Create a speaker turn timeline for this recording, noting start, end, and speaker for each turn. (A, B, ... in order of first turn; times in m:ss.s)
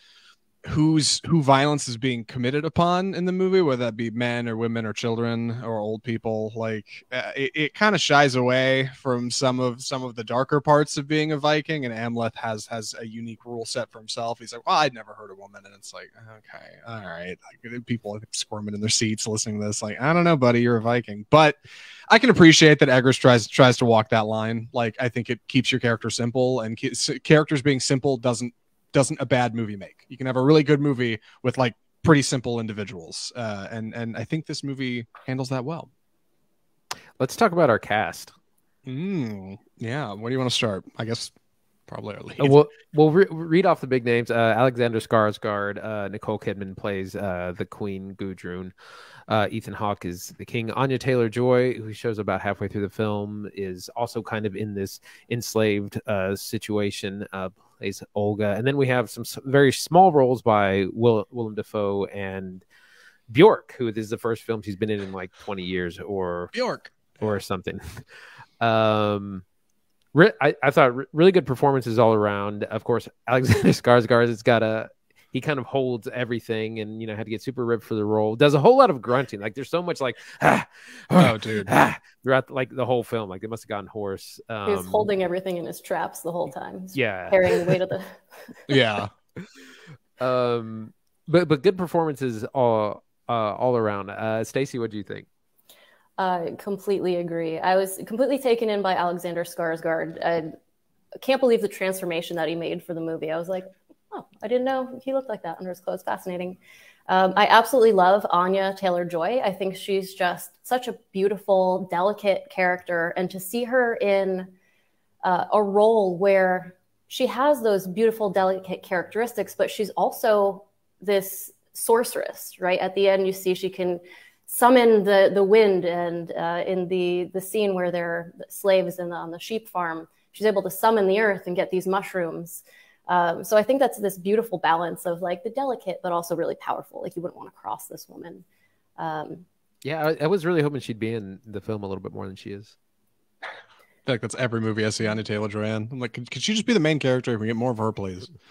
0:00.7-0:21.6 A
0:22.1-0:35.9 A
0:37.2-0:38.3 B
0:38.9-0:41.3 A
0:41.9-0:42.6 A
0:42.4-0:48.7 B
0:49.3-1:02.6 B
1:03.3-1:06.5 B
1:06.5-1:07.4 A
1:07.2-1:07.8 B
1:08.6-1:09.4 B
1:10.1-1:25.1 B
1:21.1-1:21.7 A
1:24.7-1:28.2 C
1:27.0-1:27.8 B
1:28.7-1:29.1 A
1:30.2-1:35.3 B
1:36.2-1:40.5 C
1:41.2-1:54.5 C
1:55.2-2:18.4 C
2:19.0-2:19.5 C
2:19.8-2:22.8 B
2:24.1-2:28.3 A